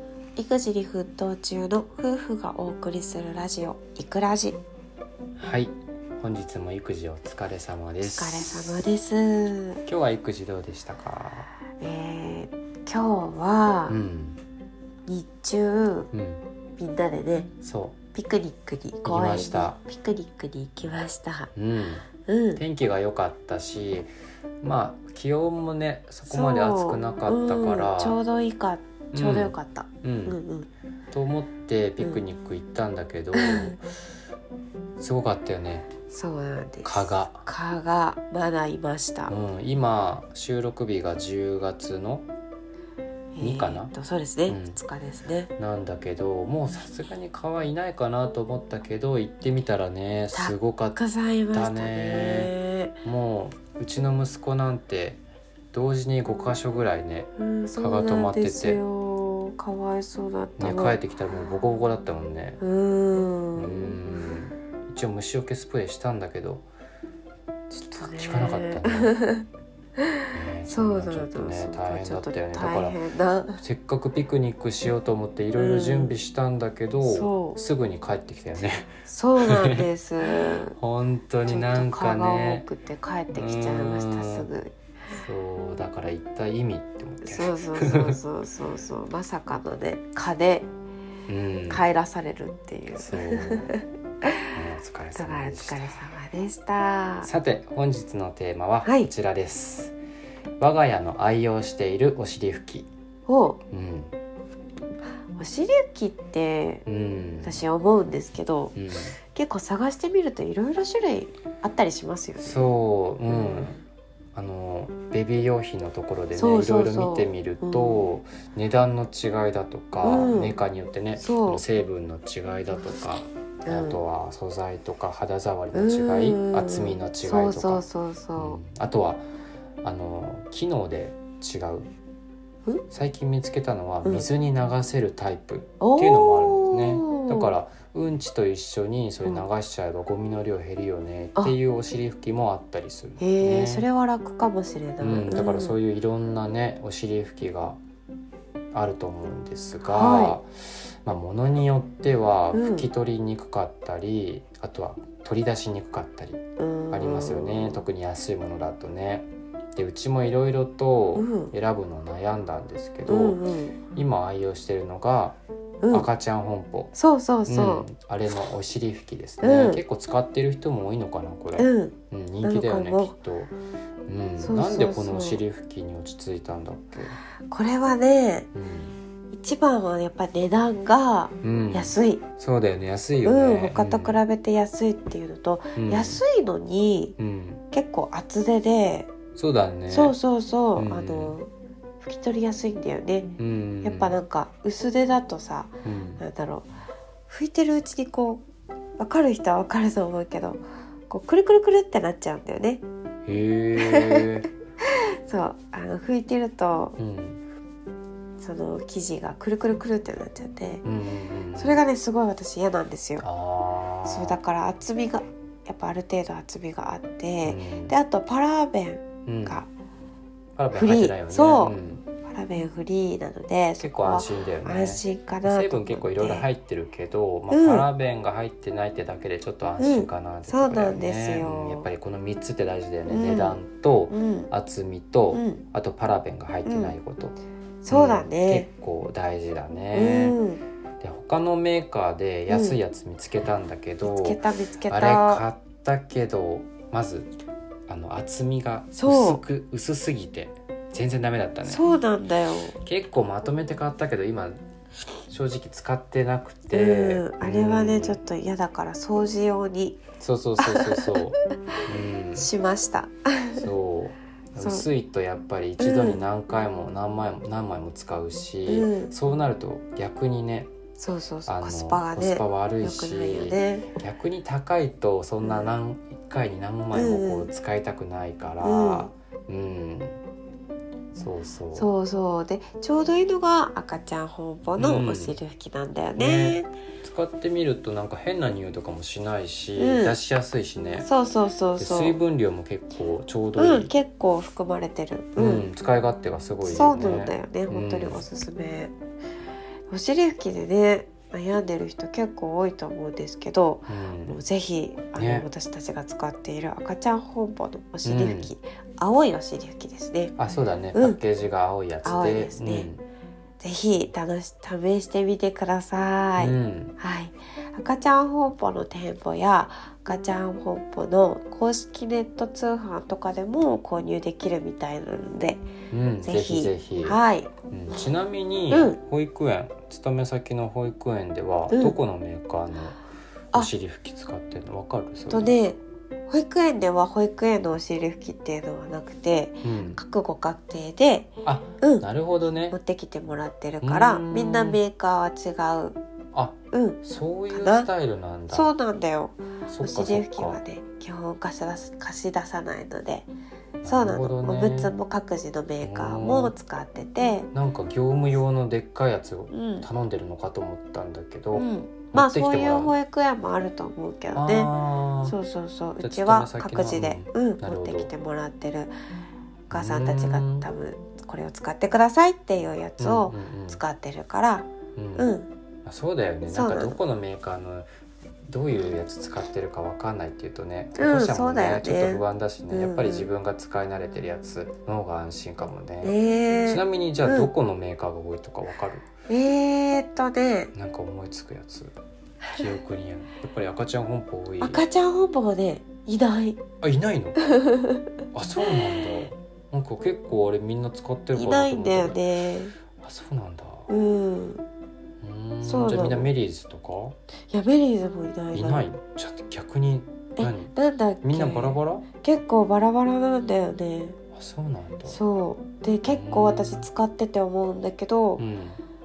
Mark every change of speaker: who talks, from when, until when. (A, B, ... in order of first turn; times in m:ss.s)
0:00.4-0:04.6 A
0:05.4-0:08.8 B
0:08.0-0:09.8 A
0:09.8-0:11.5 B
0:11.8-0:14.0 A
0:13.9-0:14.4 B
0:15.1-0:16.1 A
0:16.1-0:16.4 B
0:16.8-0:17.5 A
0:17.6-0:18.0 B
0:18.1-0:21.5 A
0:19.0-0:19.8 B
0:21.5-0:24.1 B
0:22.2-0:22.6 A
0:24.6-0:28.2 B
0:26.2-0:30.7 A
0:29.1-0:30.4 B
0:31.1-0:33.8 B
0:33.3-0:33.7 A
0:35.0-0:35.9 B
0:36.1-0:39.3 A
0:36.8-0:37.4 B
0:39.3-0:42.3 B
0:43.3-0:45.5 A
0:43.4-0:43.9 B
0:44.5-0:44.8 B
0:45.6-0:51.0 B
0:50.3-0:52.9 A
0:51.5-0:52.5 B
0:53.0-0:55.2 B
0:55.7-0:58.8 B
0:57.4-1:01.0 A
1:00.6-1:02.6 B
1:02.6-1:04.0 A
1:03.6-1:06.6 B
1:07.7-1:09.1 B
1:08.0-1:09.4 A
1:10.0-1:13.6 A
1:10.3-1:13.0 B
1:13.6-1:19.9 B
1:15.6-1:16.2 A
1:17.0-1:17.6 A
1:19.0-1:20.8 A
1:20.7-1:22.7 B
1:21.4-1:24.7 A
1:23.4-1:24.5 B
1:25.1-1:28.2 B
1:27.2-1:30.7 A
1:31.3-1:31.8 B
1:31.7-1:34.4 A
1:33.0-1:33.8 B
1:34.5-1:36.0 B
1:35.1-1:37.3 A
1:37.2-1:39.9 B
1:38.8-1:39.1 A
1:40.6-1:42.9 B
1:43.3-1:43.6 A
1:43.7-1:44.1 B
1:45.3-1:46.8 A
1:46.8-1:47.6 B
1:47.4-1:48.7 A
1:48.7-1:49.1 B
1:49.3-1:52.7 A
1:52.4-1:53.8 B
1:53.3-1:53.8 A
1:54.3-2:07.8 B
1:56.3-1:58.0 A
2:00.0-2:00.6 A
2:01.2-2:01.6 A
2:03.6-2:04.0 A
2:05.7-2:08.6 A
2:08.4-2:09.2 B
2:09.8-2:11.9 B
2:12.9-2:23.8 B
2:15.8-2:17.5 A
2:23.2-2:25.8 A
2:25.0-2:27.8 B
2:28.7-2:36.4 B
2:29.8-2:30.4 A
2:32.5-2:32.9 A
2:36.6-2:37.8 A
2:36.9-2:43.4 B
2:41.2-2:41.5 A
2:43.0-2:43.8 A
2:43.9-2:45.4 B
2:45.8-2:46.1 A
2:45.9-2:46.9 B
2:46.9-2:47.9 A
2:47.4-2:53.5 B
2:49.4-2:49.8 A
2:51.6-2:53.1 A
2:54.1-2:57.2 B
2:54.4-2:55.4 A
2:57.5-2:58.5 A
2:58.5-2:59.0 B
2:59.3-3:02.2 A
3:01.4-3:04.2 B
3:03.2-3:07.2 A
3:05.8-3:06.2 B
3:07.2-3:07.6 B
3:07.7-3:09.1 A
3:09.4-3:10.2 B
3:09.9-3:11.5 A
3:10.7-3:11.4 B
3:12.0-3:16.7 A
3:13.4-3:14.2 B
3:15.8-3:16.2 B
3:17.3-3:18.4 A
3:19.0-3:22.8 A
3:23.2-3:24.5 B
3:23.8-3:24.3 A
3:24.8-3:27.0 A
3:27.0-3:27.4 B
3:28.4-3:30.8 A
3:30.8-3:31.8 B
3:31.5-3:33.2 A
3:33.2-3:34.4 B
3:34.0-3:39.7 A
3:37.4-3:37.9 B
3:39.2-3:39.6 B
3:40.6-3:42.0 B
3:40.7-3:46.5 A
3:43.8-3:57.4 B
3:47.5-3:47.9 A
3:49.8-3:51.9 A
3:53.1-3:54.5 A
3:55.3-3:55.6 A
3:56.6-3:56.9 A
3:57.8-3:58.7 A
3:57.9-4:00.4 B
3:59.9-4:00.6 A
4:01.0-4:07.3 B
4:02.5-4:02.8 A
4:04.0-4:05.4 A
4:07.9-4:11.9 B
4:09.0-4:09.4 A
4:11.6-4:12.8 A
4:12.8-4:14.6 B
4:15.3-4:18.2 B
4:16.7-4:20.0 A
4:20.2-4:22.5 B
4:20.6-4:21.2 A
4:22.4-4:23.6 A
4:23.5-4:30.7 B
4:24.6-4:24.8 A
4:25.8-4:26.2 A
4:28.7-4:29.1 A
4:31.0-4:33.9 A
4:31.5-4:40.2 B
4:35.4-4:35.7 A
4:36.9-4:37.5 A
4:38.6-4:39.1 A
4:41.1-4:41.9 B
4:41.7-4:46.7 A
4:44.8-4:45.4 B
4:46.2-4:51.1 B
4:49.8-4:50.2 A
4:51.0-4:52.2 A
4:51.8-4:53.9 B
4:53.6-4:55.7 A
4:55.4-4:58.2 B
4:56.6-4:58.9 A
4:59.9-5:10.3 A
5:03.9-5:04.4 B
5:05.2-5:05.5 B
5:08.0-5:08.5 B
5:10.4-5:13.0 B
5:10.9-5:11.2 A
5:12.0-5:12.9 A
5:13.6-5:25.7 A
5:16.4-5:16.9 B
5:25.9-5:27.2 B
5:26.2-5:27.5 A
5:27.7-5:33.0 B
5:28.7-5:29.0 A
5:31.7-5:32.0 A
5:33.5-5:35.5 B
5:35.3-5:42.0 A
5:39.6-5:40.0 B
5:41.4-5:42.7 B
5:42.7-5:46.0 A
5:43.8-5:44.8 B
5:46.3-5:48.7 B
5:46.7-5:47.0 A
5:47.5-5:47.9 A
5:48.5-5:53.3 A
5:49.7-5:50.6 B
5:53.8-5:54.9 B
5:53.8-5:57.5 A
5:55.8-5:56.5 B
5:57.5-6:02.9 B
5:59.5-5:59.9 A
6:01.5-6:04.7 A
6:04.3-6:05.4 B
6:05.2-6:08.9 A
6:06.0-6:08.1 B
6:09.7-6:10.6 B
6:09.7-6:15.5 A
6:13.0-6:13.8 B
6:15.0-6:15.3 B
6:15.8-6:17.9 B
6:16.5-6:17.0 A
6:18.5-6:29.1 B
6:21.0-6:23.3 A
6:26.0-6:27.5 A
6:29.3-6:30.7 A
6:30.7-6:31.9 B
6:32.5-6:34.8 B
6:34.6-6:36.6 A
6:36.8-6:37.4 B
6:37.4-6:38.1 A
6:38.3-6:42.2 B
6:38.6-6:39.2 A
6:41.3-6:42.7 A
6:43.0-6:43.9 B
6:43.9-6:44.6 A
6:45.2-6:47.2 B
6:45.6-6:46.3 A
6:47.5-6:48.9 A
6:48.5-6:50.7 B
6:50.4-6:54.2 A
6:51.2-6:52.0 B
6:54.3-6:55.2 B
6:55.1-6:58.4 A
6:56.1-6:56.9 B
6:58.4-6:58.8 B